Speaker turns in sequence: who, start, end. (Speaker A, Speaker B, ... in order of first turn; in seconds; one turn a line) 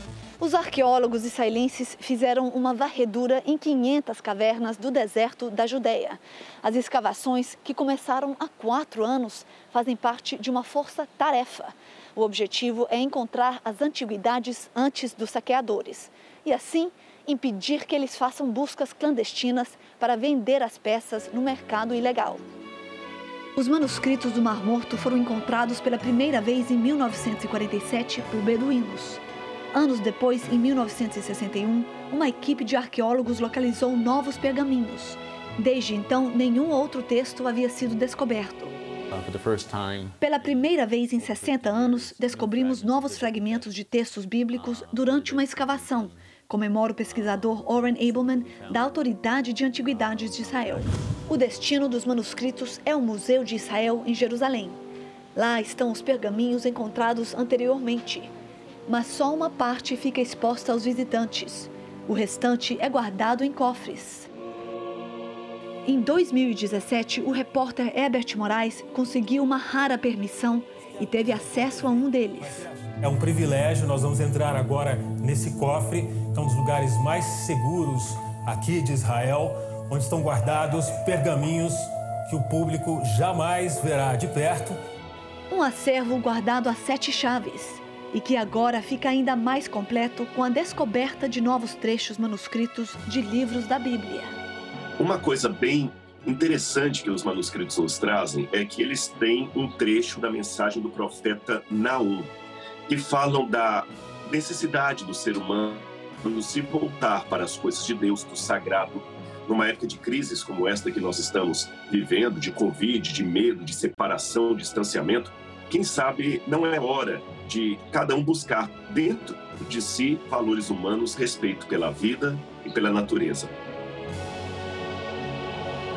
Speaker A: 0.4-22.4
Speaker A: 23.6-29.2
Speaker A: 29.7-38.7
Speaker B: 39.2-40.1
Speaker A: 40.2-54.8
Speaker A: 55.4-58.3
Speaker A: 58.9-64.3
Speaker A: 65.8-72.7
Speaker C: 73.1-84.7
Speaker A: 85.5-94.3
Speaker B: 95.0-102.3
Speaker B: 102.9-123.5